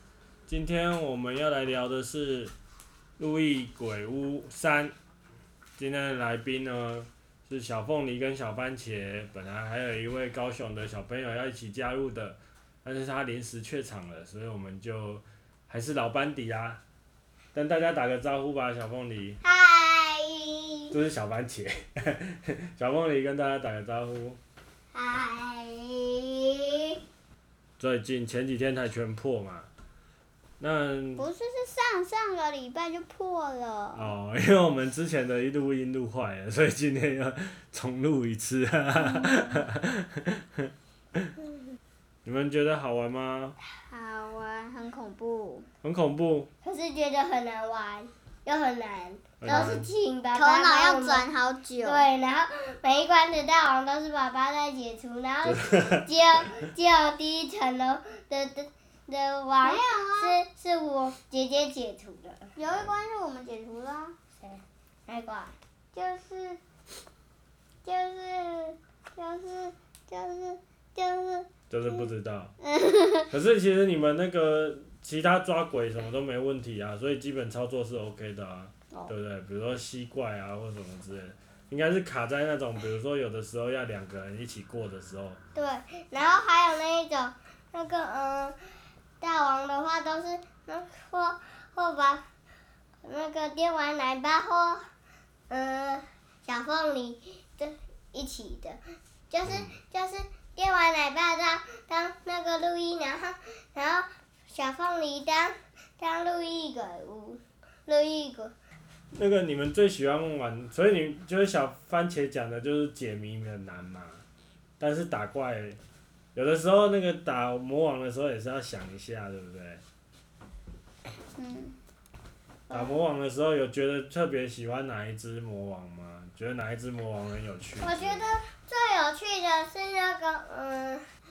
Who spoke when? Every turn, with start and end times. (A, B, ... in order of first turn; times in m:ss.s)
0:00.5-0:02.5 A
0:03.2-0:04.9 A
0:05.8-0:16.8 A
0:17.5-0:19.4 A
0:19.4-0:21.0 B
0:20.9-0:24.4 A
0:24.9-0:27.0 B
0:27.8-0:29.7 A
0:30.6-0:31.3 A
0:31.2-0:34.1 C
0:33.9-0:41.4 A
0:39.0-0:39.7 C
0:42.2-0:43.6 A
0:43.9-0:45.7 C
0:45.8-0:46.5 A
0:46.6-0:51.3 B
0:49.4-0:49.9 A
0:49.5-0:49.8 C
0:50.4-0:52.1 C
0:51.8-1:02.5 B
0:55.5-0:56.0 A
0:59.6-1:00.4 C
1:02.6-1:04.2 C
1:04.4-1:06.6 B
1:07.8-1:08.8 B
1:09.2-1:12.0 C
1:11.7-1:12.5 A
1:12.6-1:13.3 C
1:13.3-1:25.4 A
1:25.6-1:28.6 B
1:29.2-1:32.2 B
1:33.0-1:34.8 B
1:35.5-1:48.5 B
1:39.4-1:39.8 A
1:49.1-1:54.2 A
1:54.8-1:55.8 A
1:56.4-1:59.8 A
2:01.4-2:01.8 C
2:02.7-2:08.2 A
2:07.8-2:11.1 B